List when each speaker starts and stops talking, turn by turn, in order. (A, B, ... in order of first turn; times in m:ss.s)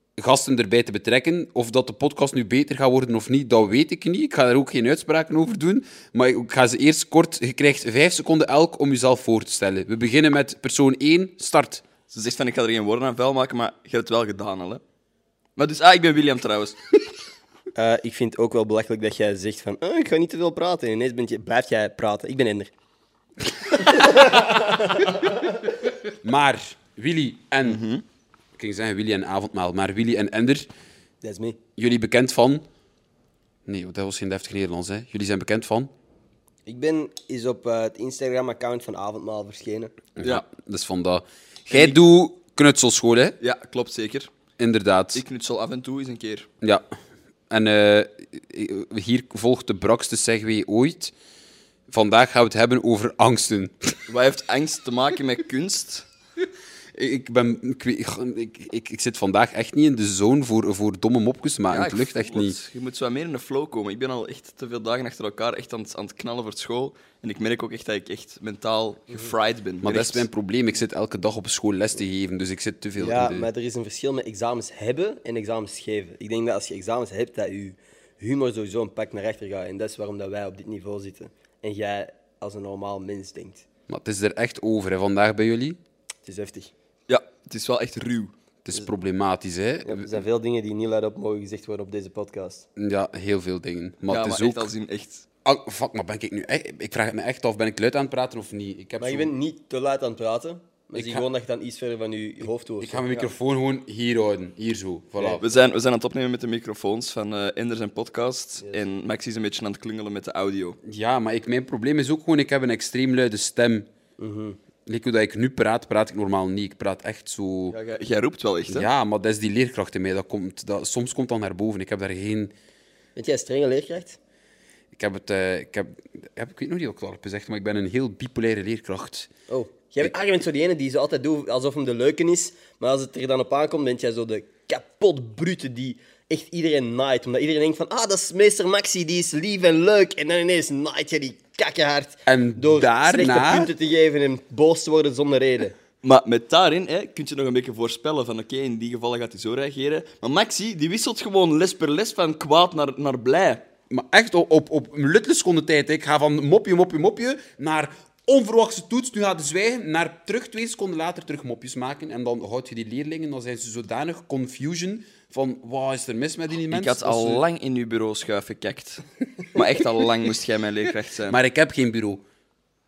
0:00.2-0:11.8 A
0:12.1-0:14.8 B
0:15.6-0:17.0 B
0:17.8-0:22.7 C
0:23.8-0:25.6 C
0:26.2-0:27.8 A
0:27.6-0:28.0 B
0:28.6-0:30.7 A
0:31.2-0:31.6 C
0:31.8-0:32.6 A
0:33.7-0:35.9 A
0:36.7-0:39.9 C
0:40.2-0:43.4 A
0:41.7-0:42.0 B
0:43.4-0:44.3 B
0:44.6-0:45.2 A
0:45.2-0:46.5 B
0:47.5-0:51.1 A
0:51.9-0:54.0 A
0:54.1-0:56.1 B
0:57.0-1:02.6 A
1:01.7-1:10.3 B
1:09.8-1:13.5 A
1:13.0-1:23.6 C
1:23.9-1:25.8 A
1:26.2-1:26.7 C
1:27.1-1:28.3 B
1:28.6-1:30.2 A
1:29.8-1:32.6 C
1:32.8-1:34.7 A
1:34.1-1:35.3 B
1:35.4-1:39.3 A
1:39.0-1:43.0 C
1:41.0-1:41.3 A
1:42.8-1:45.4 A
1:45.2-1:45.4 C
1:45.4-1:50.8 B
1:50.8-1:53.9 A
1:54.2-1:54.6 C
1:54.9-1:57.8 A
1:57.7-1:58.9 B
1:58.7-2:02.5 A
2:03.2-2:04.2 C
2:05.0-2:09.3 A
2:09.5-2:25.8 C
2:22.3-2:23.7 A
2:26.0-2:33.6 B
2:33.9-2:47.4 A
2:46.7-2:51.4 B
2:51.3-2:52.2 A